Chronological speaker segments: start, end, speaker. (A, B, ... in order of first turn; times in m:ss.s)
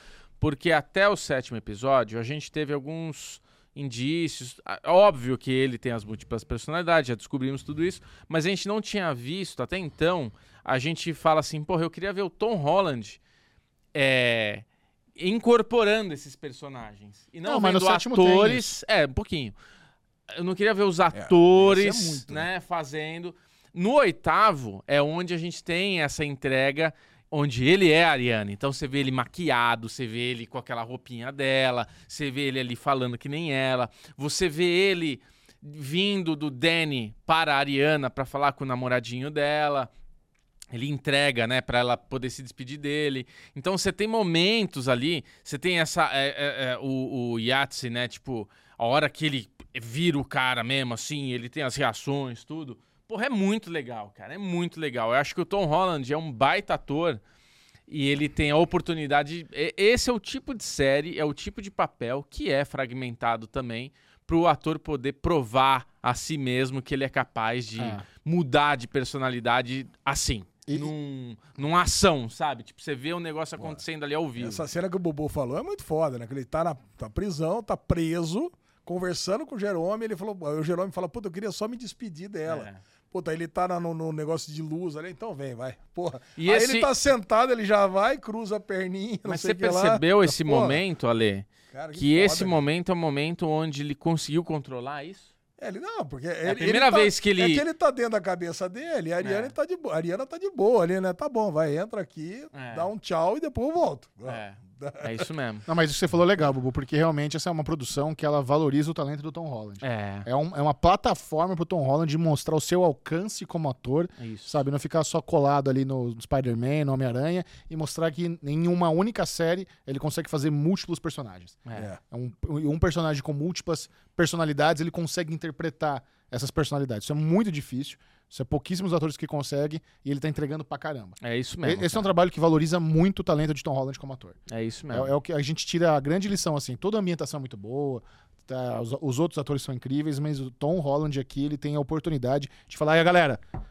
0:00.4-0:13.2 A
0:13.9-0:14.6 A
0:15.2-0:19.5 A
0:17.4-0:18.7 B
0:20.3-0:39.9 A
0:21.1-0:22.5 C
0:40.7-0:57.2 A
0:57.9-1:14.6 A
1:07.8-1:08.0 B
1:14.4-1:30.8 C
1:22.4-1:22.8 A
1:26.4-1:26.9 A
1:29.2-1:35.3 A
1:31.7-1:32.6 C
1:35.6-1:45.3 C
1:36.4-1:37.6 A
1:39.2-1:39.5 A
1:42.5-1:42.9 A
1:44.2-1:45.6 A
1:45.7-2:14.4 B
1:49.8-1:50.3 A
1:54.2-1:54.6 A
2:11.2-2:12.1 A
2:14.5-2:15.1 A
2:14.9-2:23.4 B